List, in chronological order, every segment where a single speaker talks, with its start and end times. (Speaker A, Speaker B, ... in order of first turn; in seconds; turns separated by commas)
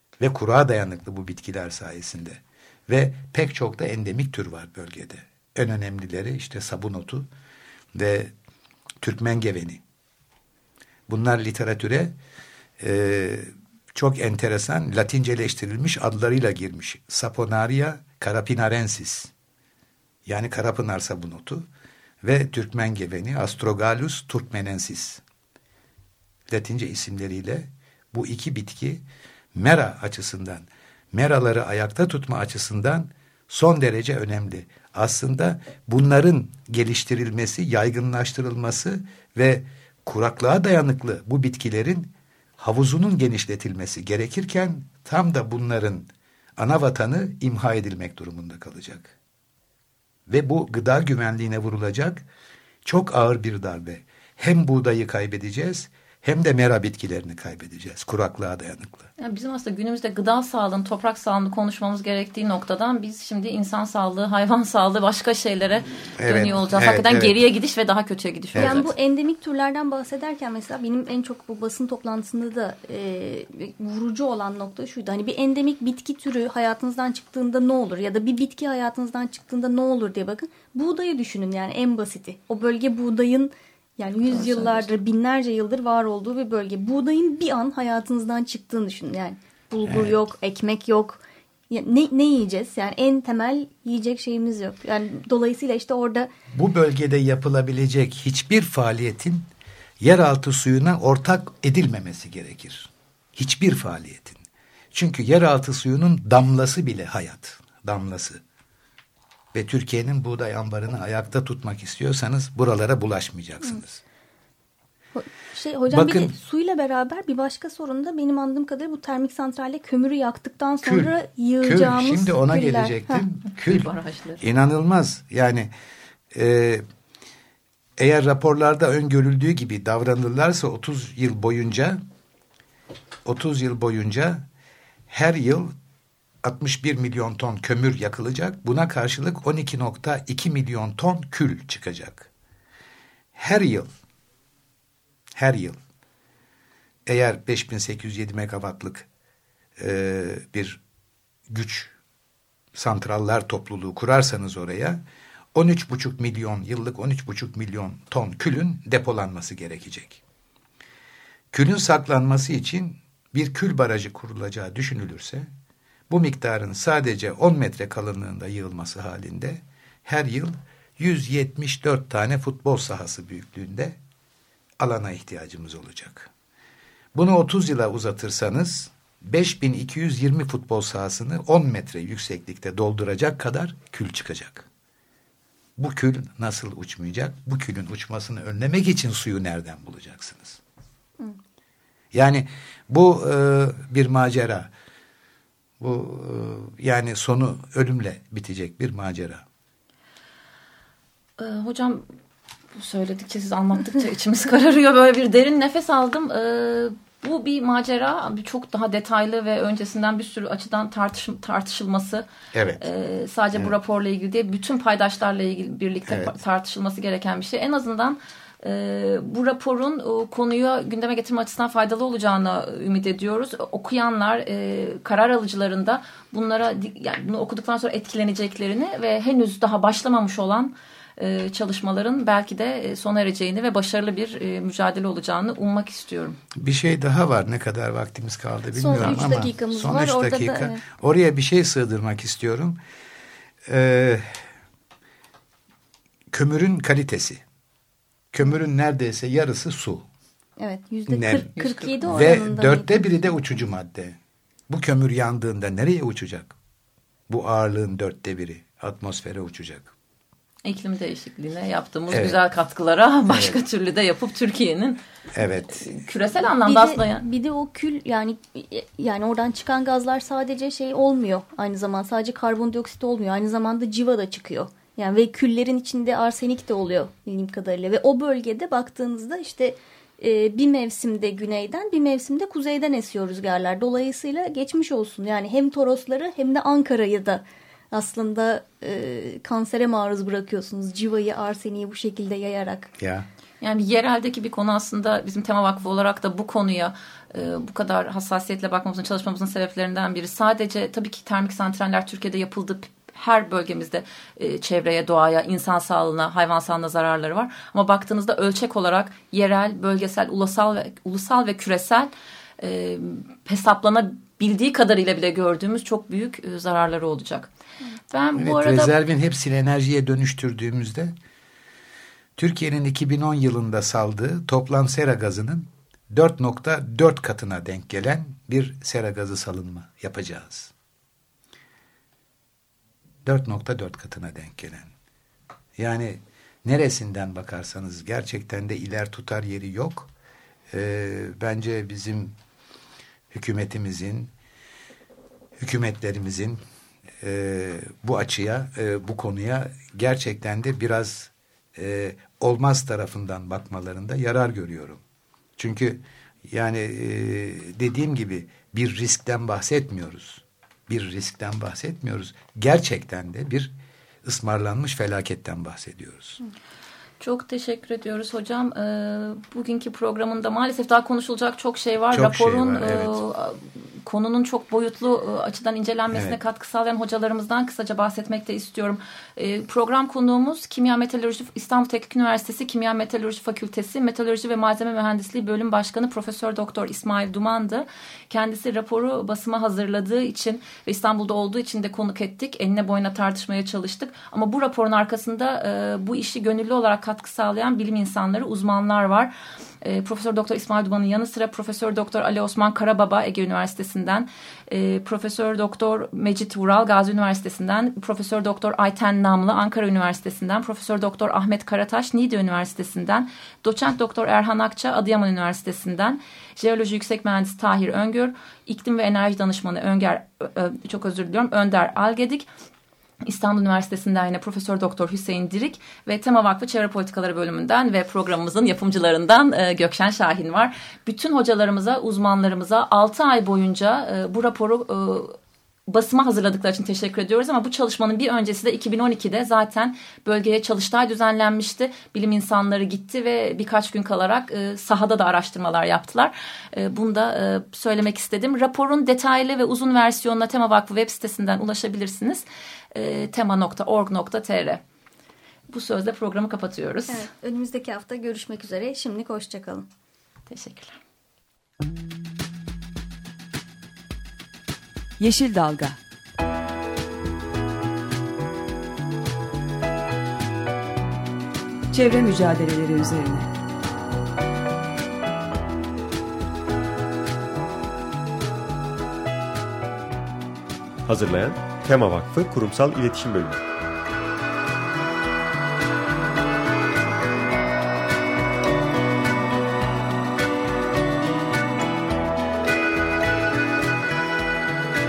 Speaker A: 0.2-7.3, Speaker A: 7.9-8.3, Speaker A: 9.0-9.8, Speaker A: 11.1-12.1, Speaker A: 12.8-19.3, Speaker A: 20.2-21.7, Speaker A: 22.2-25.2, Speaker A: 26.5-29.0, Speaker A: 29.5-49.1, Speaker A: 50.3-52.2, Speaker A: 52.8-59.1, Speaker B: 59.2-68.9, Speaker A: 66.2-67.3, Speaker A: 68.5-68.9, Speaker C: 68.5-96.3, Speaker B: 84.3-84.9, Speaker A: 89.8-90.1, Speaker A: 96.5-99.5, Speaker A: 100.0-104.4, Speaker A: 104.9-108.4, Speaker A: 109.5-114.0, Speaker C: 115.1-123.2, Speaker A: 115.9-116.3, Speaker A: 120.8-125.7, Speaker B: 123.5-124.4, Speaker A: 126.3-126.8, Speaker A: 128.0-132.0, Speaker A: 133.2-134.4, Speaker A: 135.1-135.7, Speaker A: 136.4-142.3, Speaker A: 143.3-143.9, Speaker A: 145.3-145.8, Speaker A: 147.1-149.1, Speaker A: 149.8-150.8, Speaker A: 151.5-151.9, Speaker A: 152.7-155.0, Speaker A: 155.5-160.2, Speaker A: 161.5-165.5, Speaker A: 166.1-174.0, Speaker A: 174.8-176.3, Speaker A: 177.1-184.7, Speaker A: 185.8-190.6, Speaker A: 192.1-194.7, Speaker A: 195.8-199.4, Speaker B: 201.4-202.1, Speaker B: 202.7-212.2, Speaker A: 212.5-212.8, Speaker B: 212.8-236.4, Speaker A: 216.1-216.4, Speaker A: 236.5-242.8, Speaker C: 238.7-240.8, Speaker A: 243.7-244.4, Speaker A: 246.3-247.4, Speaker A: 248.3-250.1, Speaker C: 250.6-253.1, Speaker A: 251.1-254.2, Speaker B: 251.6-251.9, Speaker A: 254.7-256.5, Speaker A: 257.3-259.9, Speaker B: 260.6-265.0, Speaker A: 262.1-262.4, Speaker A: 263.3-263.6, Speaker A: 265.3-266.0, Speaker B: 265.8-267.2, Speaker C: 266.6-292.9, Speaker A: 293.0-293.3, Speaker B: 293.6-317.5, Speaker B: 318.1-318.9, Speaker A: 318.4-321.1, Speaker A: 322.4-330.7, Speaker A: 333.2-334.9, Speaker A: 335.8-340.1, Speaker A: 340.7-342.3, Speaker A: 343.3-344.3, Speaker A: 345.6-346.6, Speaker A: 347.2-355.0, Speaker A: 355.6-363.7, Speaker A: 364.2-366.4, Speaker B: 367.2-422.5, Speaker A: 372.1-373.2, Speaker A: 376.1-376.4, Speaker B: 423.2-435.4, Speaker B: 435.9-454.8, Speaker B: 455.7-457.3, Speaker C: 457.1-459.9, Speaker B: 460.5-461.0, Speaker D: 465.2-466.0, Speaker D: 471.9-473.5, Speaker E: 481.0-483.6